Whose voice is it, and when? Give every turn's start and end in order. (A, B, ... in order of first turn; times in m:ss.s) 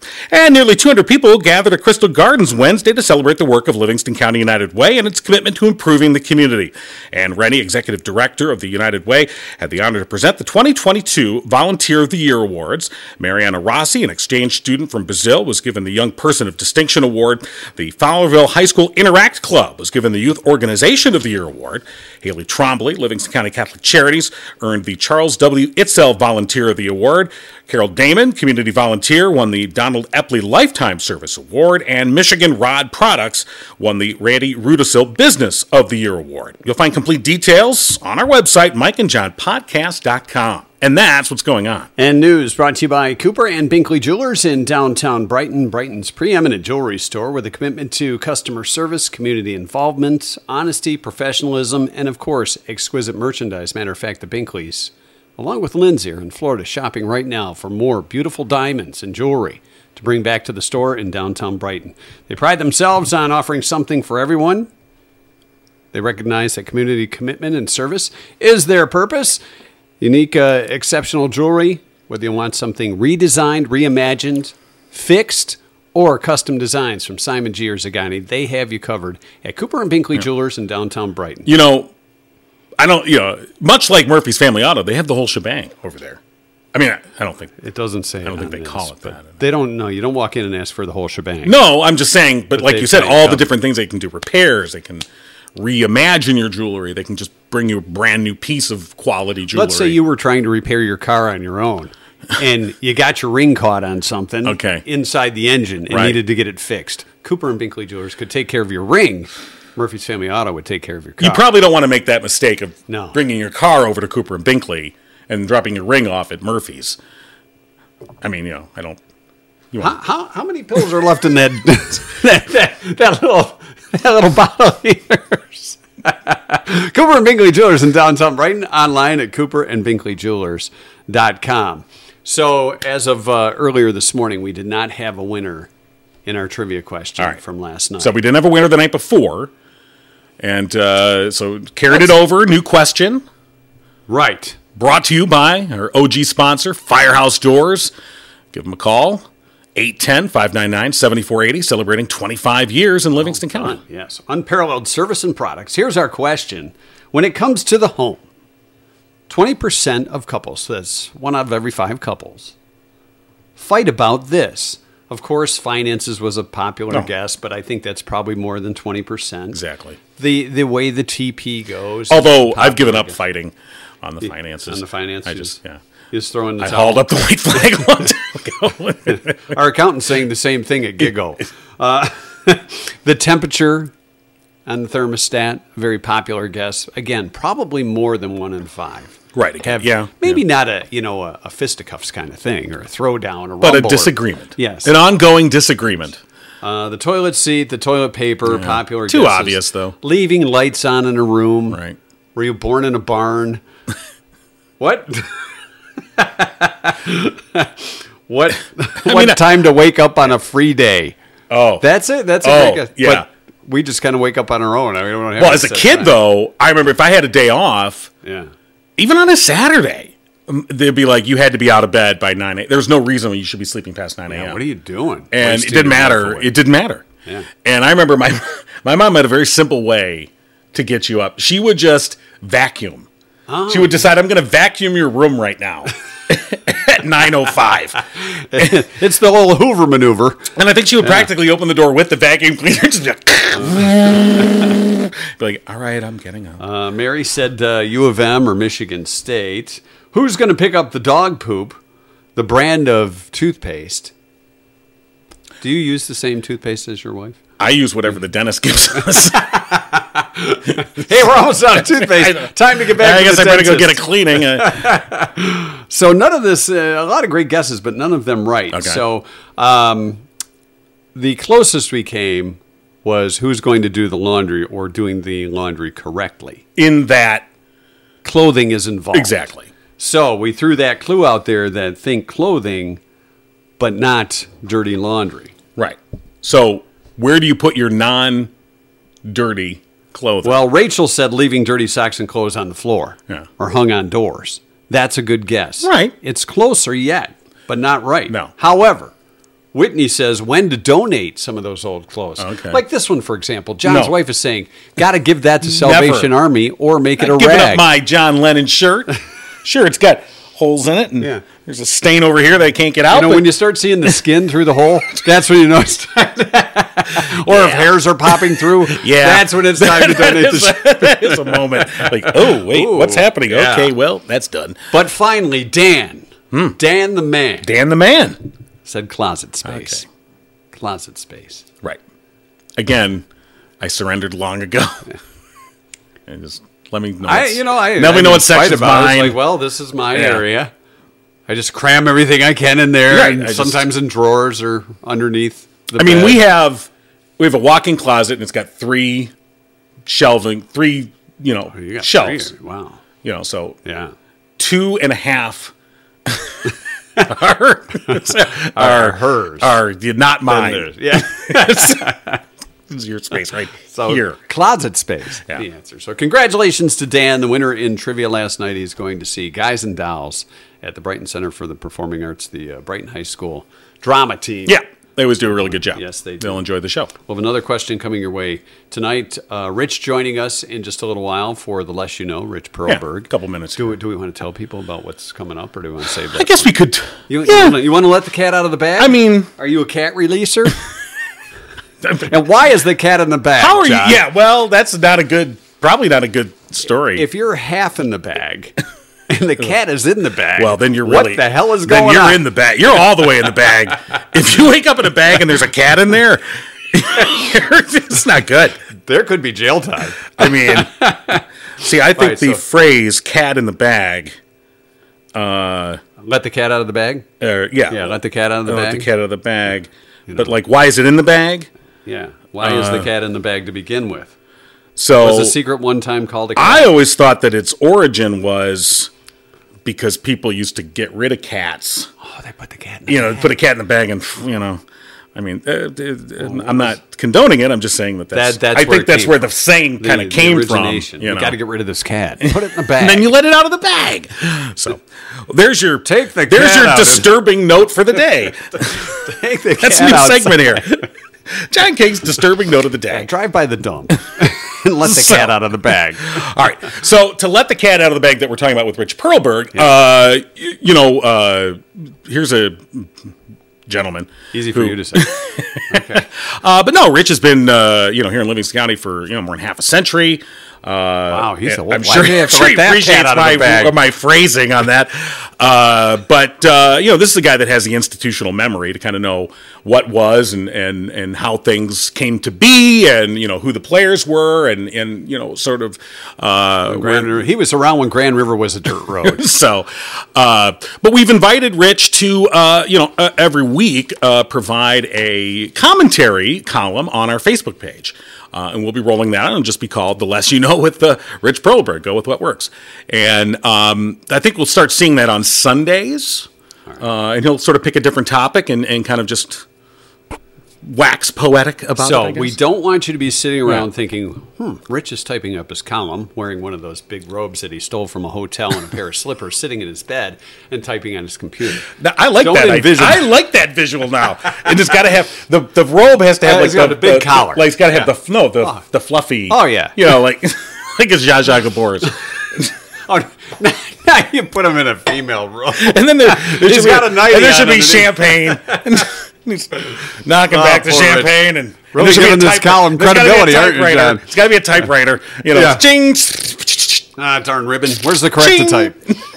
0:00.3-0:41.9 A
0:42.0-1:04.7 B
1:05.9-1:09.4 B
1:10.0-1:21.5 B
1:21.5-1:21.9 A
1:22.8-1:26.2 A
1:26.7-1:27.5 A
1:27.6-1:31.6 B
1:28.2-1:29.3 A
1:31.4-1:40.0 A
1:32.6-1:33.5 B
1:39.5-1:51.4 B
1:44.4-1:44.8 A
1:45.9-1:46.2 A
1:51.2-1:57.0 A
1:52.9-1:53.2 B
1:58.2-1:59.0 A
1:59.8-2:15.7 B
2:16.3-2:18.1 B
2:18.0-2:19.5 A
2:20.4-2:23.2 A
2:24.1-2:24.6 B
2:24.8-2:27.9 A
2:28.5-2:33.8 A
2:33.2-2:38.2 B
2:39.3-2:42.6 B
2:43.6-2:49.6 B
2:49.5-2:50.0 A
2:50.2-2:53.2 B
2:52.1-2:55.8 A
2:54.2-2:55.6 B
2:56.1-2:57.1 B
2:56.6-2:59.5 A
2:59.1-3:03.9 B
3:04.7-3:14.9 B
3:09.3-3:10.4 A
3:13.6-3:16.2 A
3:16.6-3:21.8 B
3:18.5-3:20.0 A
3:21.7-3:22.0 A
3:22.4-3:23.6 B
3:24.8-3:25.5 B
3:26.2-3:31.2 B
3:29.0-3:29.4 A
3:31.5-3:31.8 A
3:31.8-3:36.2 B
3:32.4-3:33.3 A
3:35.4-3:38.1 A
3:38.2-3:38.5 B
3:39.0-3:44.6 A
3:44.3-3:46.6 B
3:45.3-3:47.0 A
3:47.6-3:53.1 A
3:53.5-3:54.0 B
3:53.7-3:58.0 A
3:58.3-4:01.3 B
4:00.6-4:06.6 A
4:03.6-4:04.5 B
4:06.6-4:11.8 B
4:12.4-4:14.1 B
4:15.6-4:17.4 B
4:17.6-4:19.7 A
4:19.4-4:30.2 B
4:21.7-4:24.9 A
4:28.7-4:29.0 A
4:31.2-4:36.6 B
4:36.8-4:37.5 A
4:38.2-4:39.3 B
4:39.1-4:39.7 A
4:40.0-4:43.0 B
4:43.8-4:45.5 B
4:45.8-4:48.5 A
4:49.2-4:50.6 A
4:50.4-4:59.1 B
4:55.8-4:56.1 A
4:59.7-5:07.9 B
5:02.4-5:02.8 A
5:03.8-5:04.1 A
5:05.6-5:06.3 A
5:07.2-5:13.5 A
5:13.1-5:23.9 B
5:17.3-5:18.0 A
5:18.9-5:24.8 A
5:24.9-5:27.7 B
5:26.5-5:26.8 A
5:27.6-5:28.4 A
5:28.8-5:30.0 B
5:29.6-5:30.0 A
5:30.7-5:31.7 B
5:32.8-5:33.3 A
5:33.8-5:35.0 A
5:36.3-5:39.4 A
5:37.2-5:40.7 B
5:40.1-5:40.4 A
5:41.5-5:46.4 B
5:43.1-5:43.8 A
5:46.0-5:49.3 A
5:50.1-5:52.5 A
5:51.7-5:53.0 B
5:53.2-5:53.8 A
5:53.8-5:54.1 B
5:54.6-5:55.7 A
5:56.3-6:02.1 A
5:58.7-5:59.8 B
6:00.5-6:02.4 B
6:02.9-6:04.4 A
6:03.9-6:14.8 B
6:14.7-6:17.1 A
6:15.9-6:16.6 B
6:17.2-6:26.6 B
6:22.9-6:23.9 A
6:26.3-6:27.8 A
6:27.3-6:30.8 B
6:29.0-6:29.5 A
6:32.0-6:32.3 A
6:32.3-6:34.2 B
6:33.6-6:37.3 A
6:37.1-6:42.5 B
6:40.6-6:48.8 A
6:49.1-6:51.4 B
6:50.4-6:51.1 A
6:51.8-6:54.4 A
6:52.2-6:52.6 B
6:55.4-6:56.0 A
6:56.2-6:57.3 B
6:57.4-7:01.7 A
6:57.9-6:59.1 B
7:00.3-7:00.5 B
7:02.1-7:04.4 B
7:02.6-7:03.1 A
7:05.0-7:05.6 A
7:05.2-7:06.9 B
7:06.6-7:09.1 A
7:09.8-7:12.1 A
7:12.2-7:13.5 B
7:13.1-7:14.8 A
7:15.4-7:21.6 A
7:16.4-7:16.9 B
7:18.3-7:19.4 B
7:20.0-7:23.3 B
7:23.0-7:29.2 A
7:26.0-7:27.3 B
7:29.0-7:31.0 B
7:29.8-7:33.3 A
7:33.1-7:36.4 B
7:35.0-7:35.5 A
7:36.3-7:43.1 A
7:43.9-8:07.4 A
7:44.5-7:46.3 B
7:51.3-7:54.0 B
8:06.9-8:09.5 B
8:09.2-8:26.5 A
8:27.0-8:29.6 A
8:30.8-8:32.6 A
8:32.0-8:43.3 B
8:41.9-8:52.7 A
8:46.4-8:47.8 B
8:49.5-8:50.0 B
8:53.1-8:59.1 B
8:55.8-9:07.1 A
9:00.5-9:01.4 B
9:01.9-9:04.3 B
9:05.5-9:05.8 B
9:07.2-9:09.0 B
9:08.4-9:09.2 A